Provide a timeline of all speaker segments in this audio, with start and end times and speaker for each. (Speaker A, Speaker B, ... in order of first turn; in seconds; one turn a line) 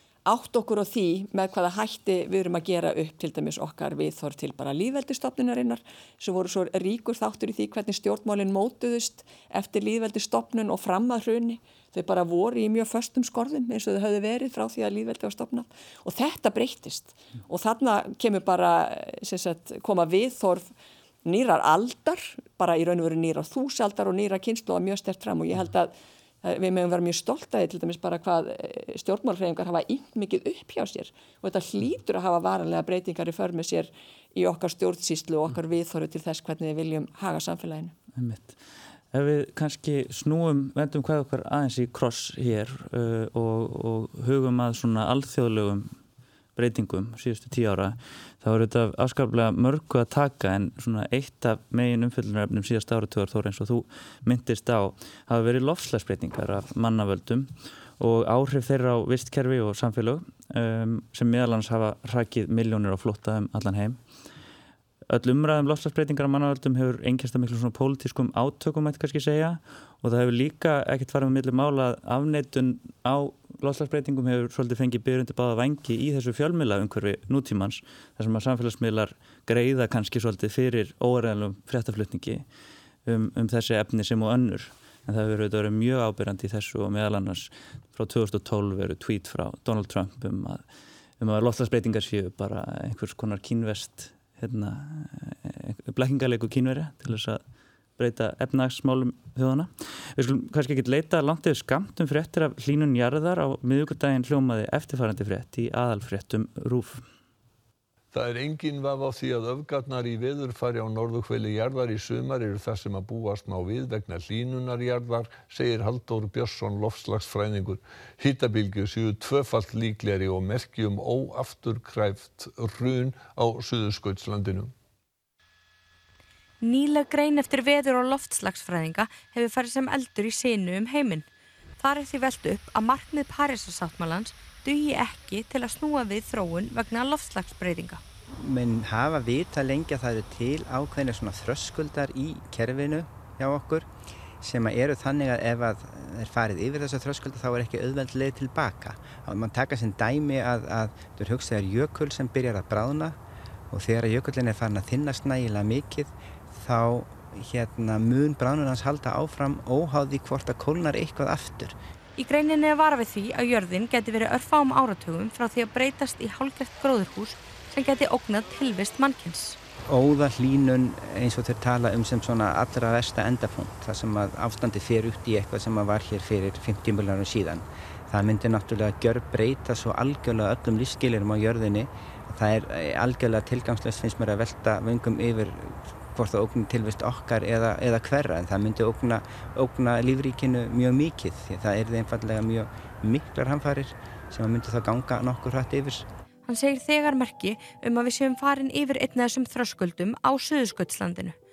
Speaker A: 0.2-20.7
Speaker A: 21.2-25.9
Speaker A: 26.4-37.9
Speaker B: 38.1-38.6
Speaker B: 39.1-45.9
Speaker B: 46.5-64.0
Speaker B: 65.1-82.4
Speaker B: 83.0-90.6
Speaker B: 91.2-97.4
Speaker B: 98.0-107.0
Speaker C: 108.1-124.7
Speaker D: 126.6-131.2
Speaker D: 131.8-138.0
Speaker E: 138.3-143.9
Speaker E: 144.4-153.2
Speaker E: 153.7-161.8
Speaker D: 162.2-169.6
Speaker E: 169.9-196.1
Speaker D: 196.5-201.3